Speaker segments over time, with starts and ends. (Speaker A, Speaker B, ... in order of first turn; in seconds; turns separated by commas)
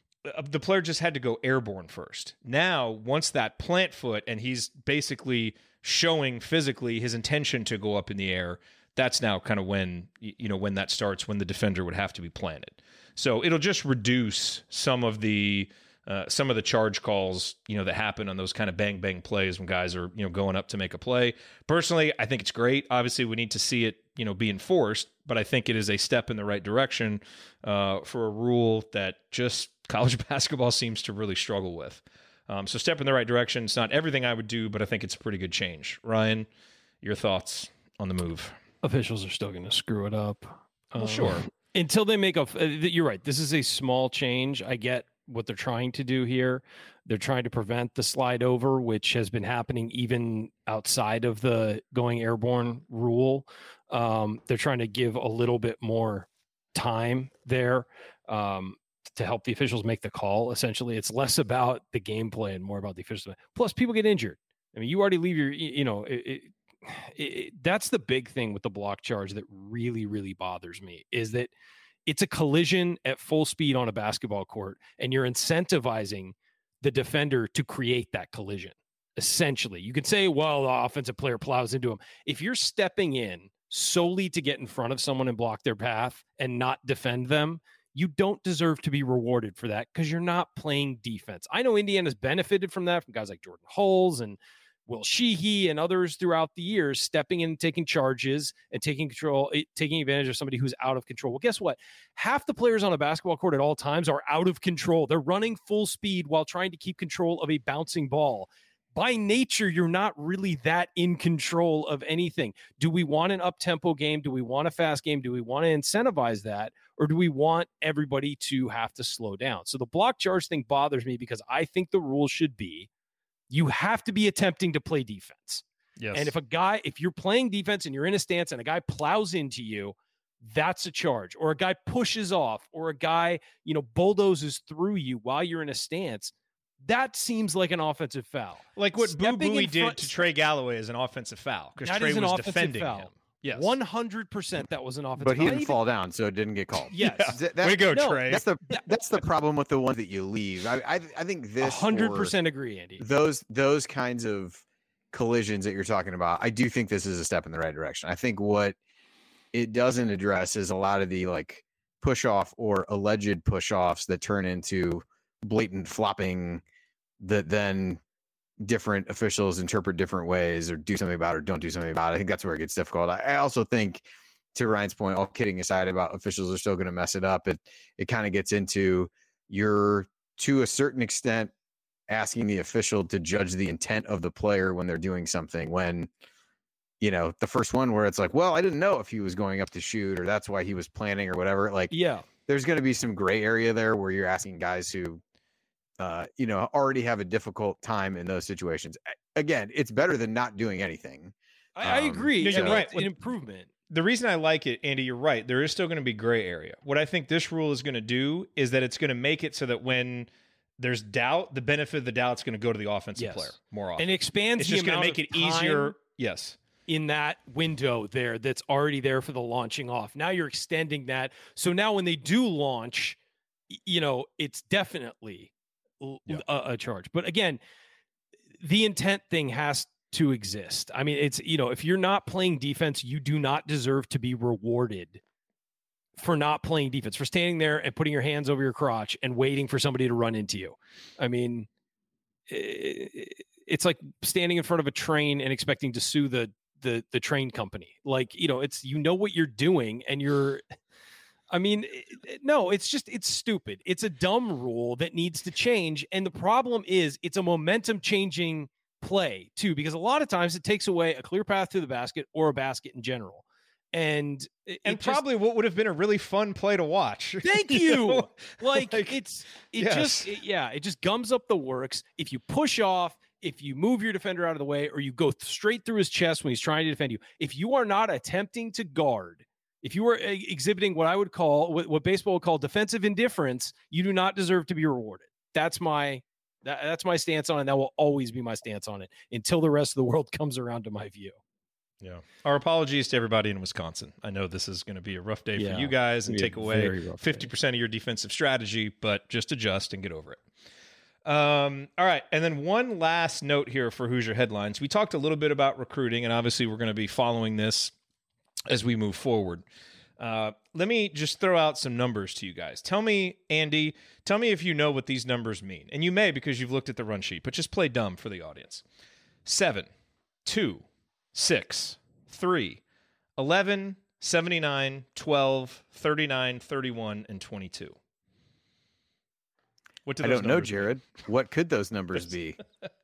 Speaker A: 0.2-36.5, Speaker A: 37.0-38.5, Speaker B: 38.8-71.5, Speaker A: 41.0-41.5, Speaker B: 72.1-122.9, Speaker B: 123.5-140.2, Speaker A: 126.0-126.3, Speaker A: 138.8-143.7, Speaker B: 141.8-145.8, Speaker C: 145.2-152.4, Speaker B: 146.9-148.8, Speaker A: 147.0-148.4, Speaker B: 151.6-153.1, Speaker C: 153.0-158.8, Speaker C: 159.5-166.6, Speaker C: 167.2-168.0, Speaker C: 168.6-181.5, Speaker C: 182.1-186.1, Speaker C: 187.0-191.9, Speaker B: 191.9-192.2, Speaker C: 192.5-195.2, Speaker C: 196.0-202.8, Speaker B: 201.8-203.7, Speaker A: 202.4-203.1, Speaker A: 203.9-216.6, Speaker B: 213.2-216.0, Speaker B: 216.9-223.2, Speaker B: 223.7-227.6, Speaker B: 228.6-235.2, Speaker B: 236.2-241.7, Speaker B: 242.5-250.6, Speaker B: 251.5-265.2, Speaker A: 264.9-269.2, Speaker B: 267.4-291.4, Speaker A: 269.8-270.3, Speaker A: 292.0-300.4, Speaker B: 295.6-297.5, Speaker A: 301.3-307.9, Speaker A: 308.7-309.6, Speaker A: 310.2-318.8, Speaker A: 319.5-319.9, Speaker A: 320.4-322.8, Speaker A: 323.4-328.0, Speaker A: 330.1-330.9, Speaker C: 330.2-332.6